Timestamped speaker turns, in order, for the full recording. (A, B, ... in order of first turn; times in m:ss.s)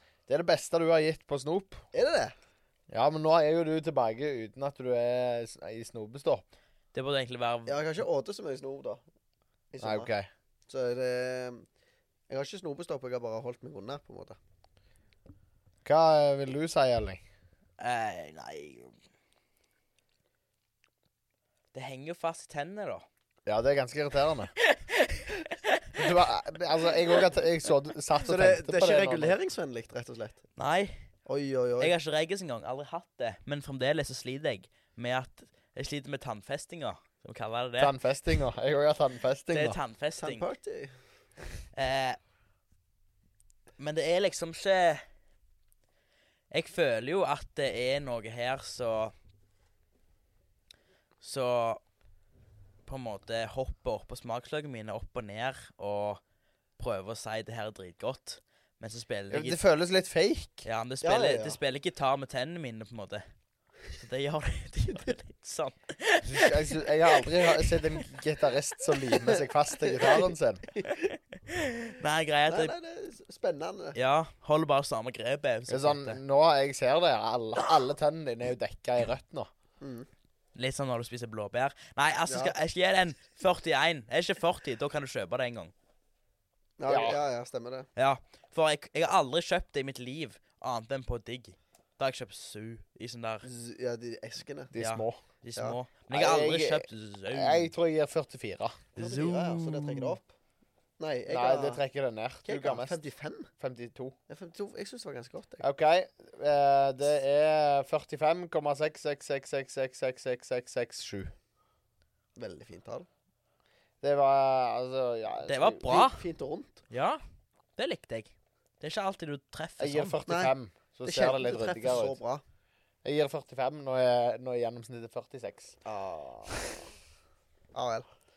0:00.3-0:01.9 A
0:01.9-0:02.3 B
0:02.9-0:06.5 A
0:06.9-0:08.0 C
0:07.7-0:09.0 B
0:09.7-0:10.1 B
0:09.8-0:10.3 A
0:10.7-0:11.7 B
0:12.3-0:14.4 B
0:15.8-0:17.2 A
0:17.8-0:19.0 C
0:21.7-0:23.1 C
0:23.5-0:24.5 A
0:24.6-0:26.1 C
0:26.0-0:29.4 A
0:28.2-0:30.4 B
0:30.6-0:31.1 C
0:31.3-0:31.9 B
0:31.8-0:38.0 C
0:37.8-0:39.8 A
0:39.5-0:40.5 C
0:40.2-0:40.9 B
0:41.7-0:42.2 C
0:43.8-0:45.0 C
0:46.5-0:49.1 C
0:51.2-0:51.8 C
0:52.9-0:56.2 C
0:56.8-0:59.6 C
0:59.3-1:00.7 A
1:00.6-1:03.2 C
1:01.0-1:01.6 B
1:03.9-1:07.9 C
1:06.2-1:10.6 A
1:09.3-1:11.1 B
1:10.9-1:12.7 C
1:12.5-1:14.0 B
1:14.0-1:16.2 C
1:15.7-1:19.5 A
1:19.8-1:20.1 B
1:20.6-1:25.7 C
1:22.3-1:22.5 B
1:26.8-1:27.9 B
1:26.9-1:27.2 A
1:28.0-1:33.5 C
1:33.4-1:34.7 B
1:34.7-1:35.2 A
1:34.8-1:37.7 C
1:36.1-1:38.8 A
1:39.0-1:40.2 C
1:39.0-1:40.3 B
1:41.0-1:41.8 B
1:41.3-1:43.0 A
1:42.4-1:43.5 B
1:43.6-1:44.2 A
1:44.3-1:45.7 B
1:45.6-1:51.3 A
1:52.4-1:53.1 B
1:54.0-1:55.9 A
1:55.5-1:56.2 C
1:55.8-1:56.8 B
1:56.9-1:57.2 C
1:57.8-2:00.2 C
1:59.8-2:02.2 A
2:00.3-2:00.5 B
2:01.0-2:02.4 B
2:03.0-2:05.8 A
2:05.8-2:06.7 B
2:07.7-2:08.1 B